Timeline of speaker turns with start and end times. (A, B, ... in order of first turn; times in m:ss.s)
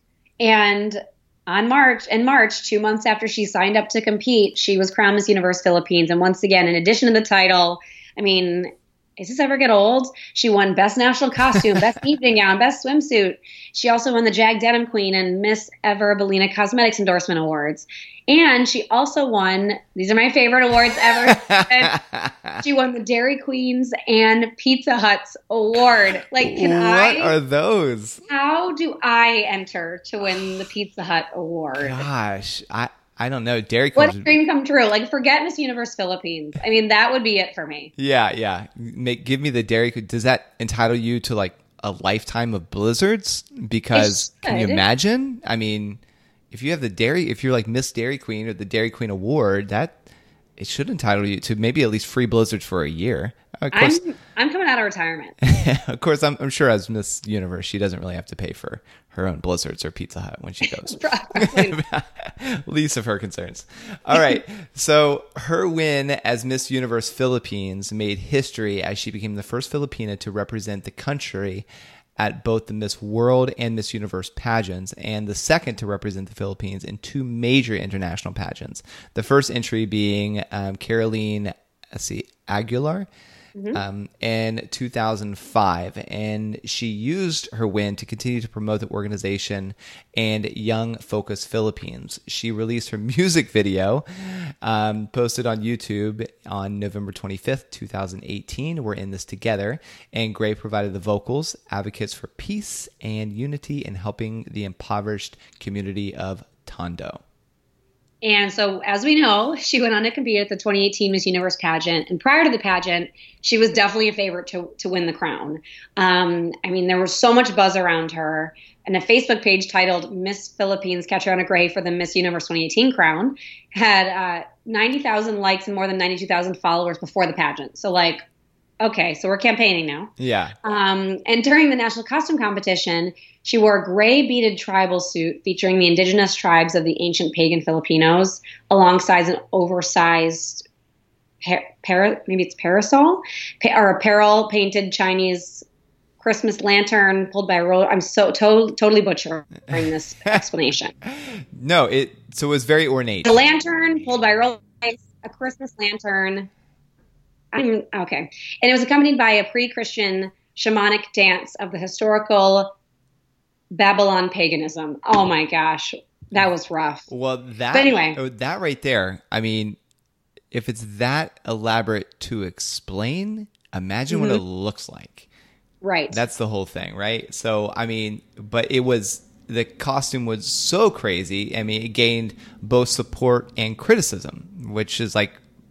0:00.4-0:21.9 A
0:21.2-0:22.6 B
0:22.6-0:27.4 A
0:26.4-0:28.2 B
0:28.3-0:32.0 A
0:31.7-0:34.3 B
0:34.0-0:37.9 A
0:38.0-0:46.0 B
0:43.9-0:44.8 A
0:46.5-0:50.0 B
0:50.6-0:54.0 B
0:53.7-0:55.4 A
0:55.4-1:11.6 B
1:00.8-1:01.8 A
1:12.2-1:23.1 B
1:23.7-1:47.2 B
1:48.2-2:08.2 A
2:08.8-2:10.1 A
2:10.2-2:10.5 B
2:10.6-2:20.6 A
2:21.4-2:25.6 A
2:26.2-2:30.9 A
2:31.1-2:33.3 B
2:33.2-2:36.5 A
2:37.5-2:42.7 A
2:43.7-2:47.1 A
2:47.1-2:49.8 B
2:47.7-2:48.2 A
2:50.5-2:55.3 B
2:54.1-2:54.4 A
2:55.8-2:56.2 A
2:56.1-3:05.4 B